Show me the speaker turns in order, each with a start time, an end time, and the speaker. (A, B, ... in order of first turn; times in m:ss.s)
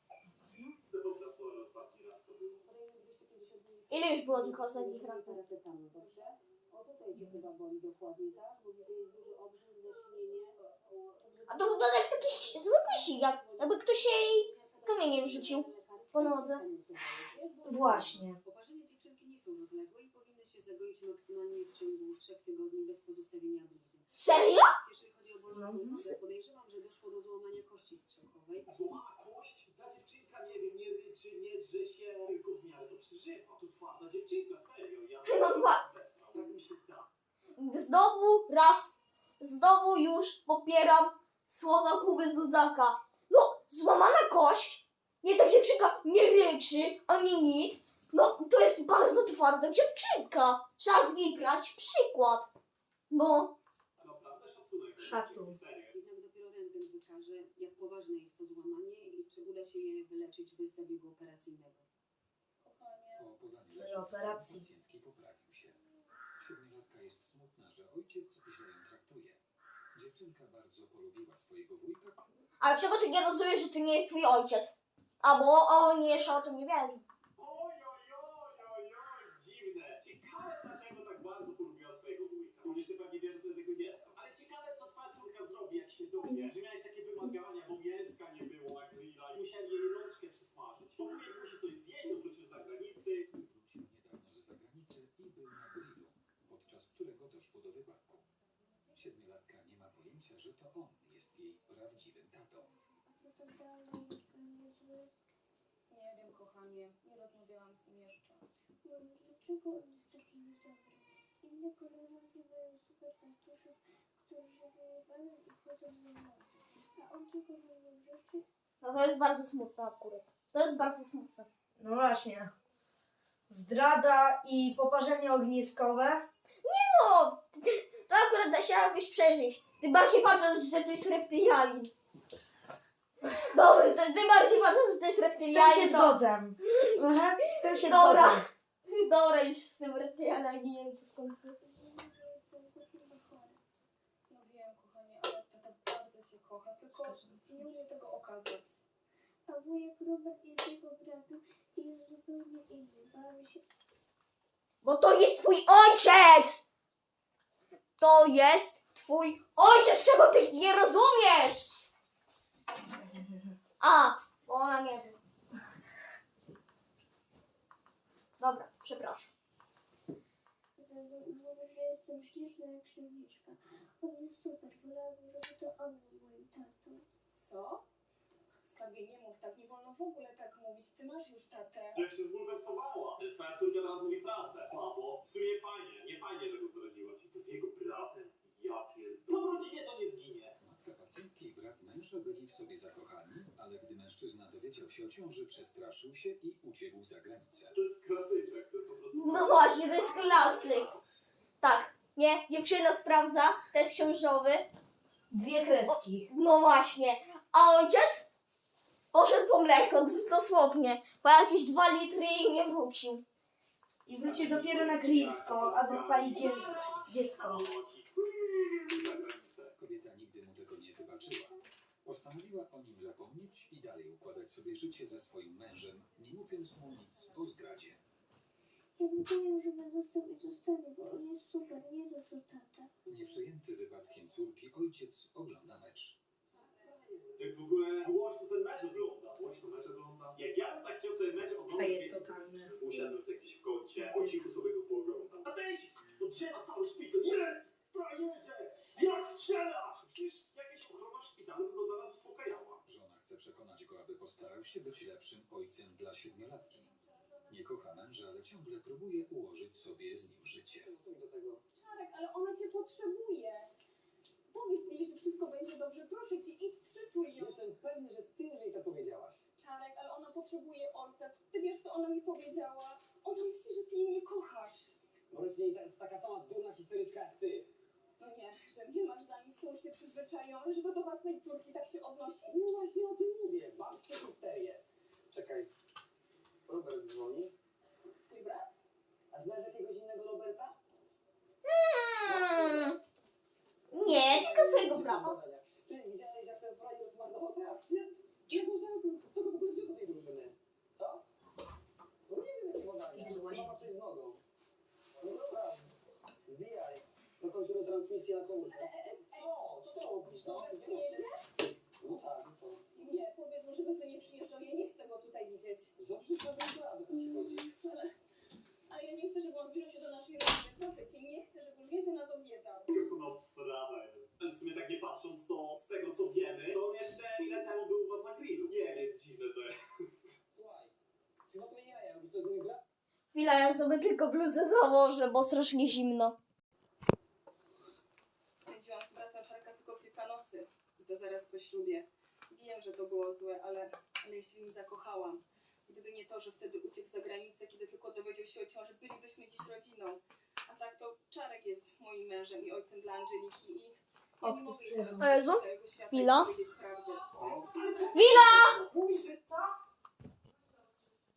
0:00.4-0:00.8 A
0:00.9-0:02.6 B
0:02.6-0:28.8 C
0:03.9-0:05.4 D
0:07.1-0:07.4 A
0:11.5-0:16.6 D
0:17.6-0:18.4 A
0:24.1-0:24.7 D
0:25.4-0:26.2 A
0:28.6-0:37.1 B
0:35.2-0:35.8 D
0:37.6-0:52.5 D
0:53.1-0:53.5 D
0:54.0-0:55.9 B
0:55.0-0:55.6 A
0:55.9-1:01.9 C
1:02.6-1:03.3 E
1:03.2-1:05.8 F
1:03.7-1:04.6 A
1:06.4-1:09.4 F
1:09.9-1:12.2 F
1:12.6-1:17.0 D
1:17.4-1:33.3 B
1:33.3-1:38.2 F
1:38.9-1:42.7 F
1:43.1-1:45.1 G
1:45.9-1:48.5 E
1:48.8-1:56.4 G
1:57.0-1:58.4 G
1:58.8-2:01.5 D
2:01.8-2:02.5 A
2:03.5-2:06.2 A
2:06.6-2:11.9 D
2:13.4-2:16.2 D
2:15.4-2:18.4 A
2:17.8-2:21.6 D
2:21.6-2:23.5 E
2:23.1-2:23.4 G
2:24.3-2:28.8 E
2:27.0-2:27.5 A
2:29.5-2:33.6 G
2:34.8-2:36.6 D
2:38.0-2:41.8 D
2:43.8-2:45.2 D
2:48.4-2:49.3 D
2:50.8-2:57.0 G
2:57.3-2:57.8 E
2:58.6-3:01.9 E
3:01.9-3:10.6 B
3:10.6-3:17.7 F
3:17.7-3:21.0 B
3:19.1-3:20.9 D
3:21.6-3:24.6 D
3:25.3-3:26.3 A
3:25.9-3:28.3 D
3:29.1-3:33.2 D
3:34.0-3:37.7 A
3:34.2-3:39.8 B
3:39.8-3:48.0 F
3:49.0-3:52.9 G
3:53.1-3:56.2 F
3:56.8-3:57.4 H
3:57.4-4:12.8 B
4:01.7-4:03.0 A
4:04.0-4:04.4 A
4:12.9-4:16.9 F
4:17.5-4:20.9 F
4:20.7-4:21.6 H
4:21.7-4:23.7 E
4:24.5-4:27.6 E
4:27.4-4:29.4 H
4:29.6-4:34.9 E
4:35.3-4:37.7 H
4:38.2-4:42.7 E
4:42.5-4:45.7 H
4:46.7-4:47.5 H
4:48.2-4:48.8 E
4:49.3-4:50.8 H
4:51.6-4:53.0 D
4:52.2-4:53.0 H
4:53.9-4:55.3 D
4:54.0-5:01.2 H
5:02.3-5:04.4 H
5:03.1-5:03.9 A
5:05.2-5:05.9 H
5:06.4-5:11.2 H
5:08.6-5:09.5 E
5:10.3-5:11.4 E
5:12.0-5:12.8 H
5:12.9-5:15.9 E
5:16.0-5:17.7 H
5:17.1-5:18.1 E
5:18.9-5:22.9 E
5:22.9-5:30.4 B
5:30.5-5:30.9 H
5:31.5-5:32.8 H
5:33.3-5:36.4 D
5:38.6-5:57.3 E
5:54.4-5:55.3 A
5:55.2-5:56.5 D
5:57.3-5:59.5 B
5:58.1-5:58.8 D